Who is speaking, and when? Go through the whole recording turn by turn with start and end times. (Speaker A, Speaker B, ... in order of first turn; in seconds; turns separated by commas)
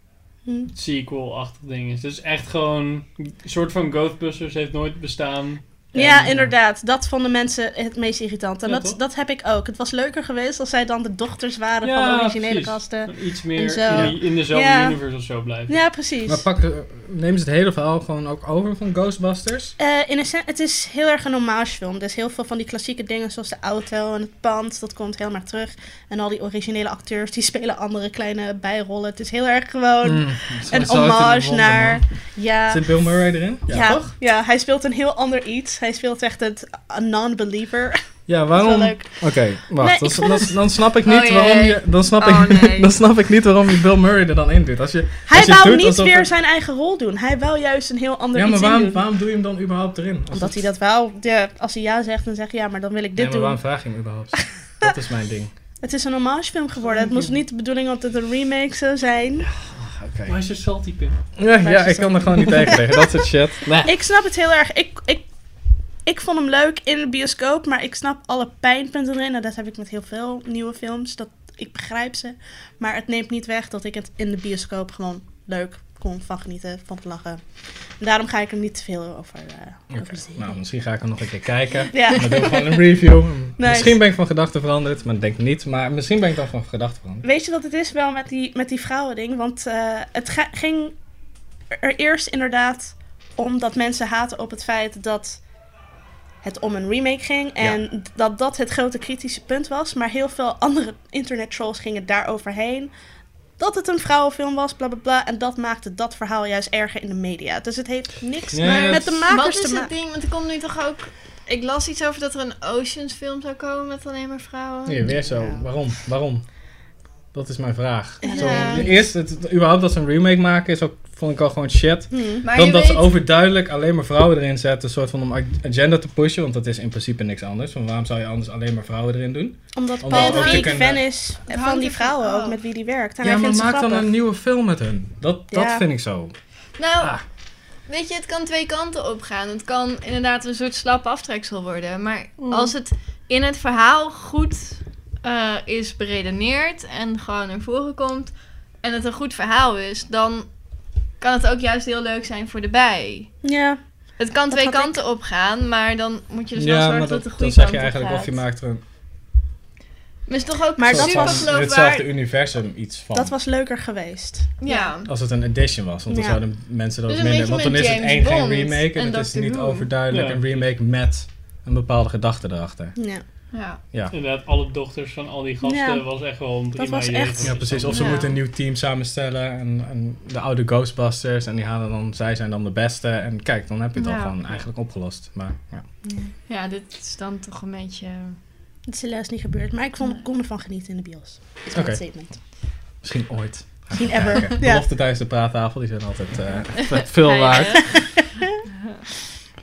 Speaker A: 0.7-6.5, Speaker B: 5.9-15.0, Speaker A: 8.6-9.0, Speaker A: 11.8-15.7, Speaker C: 13.9-14.1, Speaker B: 15.7-16.4, Speaker C: 16.3-19.8, Speaker B: 19.8-33.0, Speaker C: 30.0-32.0, Speaker C: 32.7-34.1, Speaker B: 33.7-38.0, Speaker C: 38.3-46.3, Speaker B: 38.5-39.2, Speaker B: 39.8-40.6, Speaker D: 41.0-42.9, Speaker B: 45.3-49.0, Speaker C: 48.3-50.6, Speaker B: 50.3-53.6, Speaker C: 53.1-55.5, Speaker B: 54.4-54.9, Speaker B: 55.8-59.5, Speaker C: 59.4-60.4, Speaker A: 60.3-61.2, Speaker C: 61.4-63.9, Speaker B: 61.6-65.3, Speaker B: 66.0-77.4, Speaker B: 78.0-80.5, Speaker C: 79.9-87.2, Speaker B: 81.9-84.0, Speaker B: 87.2-91.0, Speaker B: 91.8-95.4, Speaker B: 96.4-102.9, Speaker B: 103.6-109.9, Speaker C: 108.5-109.3, Speaker D: 109.3-115.2, Speaker C: 114.8-116.4, Speaker B: 115.1-115.6, Speaker C: 117.3-131.1, Speaker D: 118.2-118.9, Speaker B: 118.2-119.0, Speaker B: 122.1-122.4, Speaker D: 122.4-123.1, Speaker B: 129.7-134.1, Speaker D: 130.1-132.6, Speaker C: 133.2-136.3, Speaker B: 135.5-135.8, Speaker D: 136.8-137.2, Speaker C: 137.0-137.2, Speaker D: 137.9-150.5, Speaker B: 142.4-142.7, Speaker D: 151.2-153.3, Speaker B: 153.4-153.8, Speaker D: 154.2-158.4, Speaker B: 154.5-154.9, Speaker C: 156.5-158.8, Speaker D: 160.3-162.1, Speaker B: 160.8-161.5, Speaker C: 160.9-163.3, Speaker B: 163.1-164.9, Speaker D: 164.6-165.1, Speaker C: 165.1-172.9, Speaker B: 166.1-166.4, Speaker D: 167.1-169.9, Speaker A: 170.1-170.7, Speaker B: 172.9-173.2, Speaker D: 173.5-173.8, Speaker A: 174.1-178.1, Speaker B: 175.6-176.1, Speaker B: 176.8-178.2, Speaker C: 177.4-185.8, Speaker D: 177.9-178.3, Speaker D: 183.9-184.4, Speaker B: 186.1-186.3, Speaker D: 186.5-188.4, Speaker B: 188.9-192.3, Speaker C: 191.7-192.0, Speaker C: 193.0-198.0, Speaker B: 193.9-194.8, Speaker D: 196.8-198.2, Speaker B: 197.8-198.4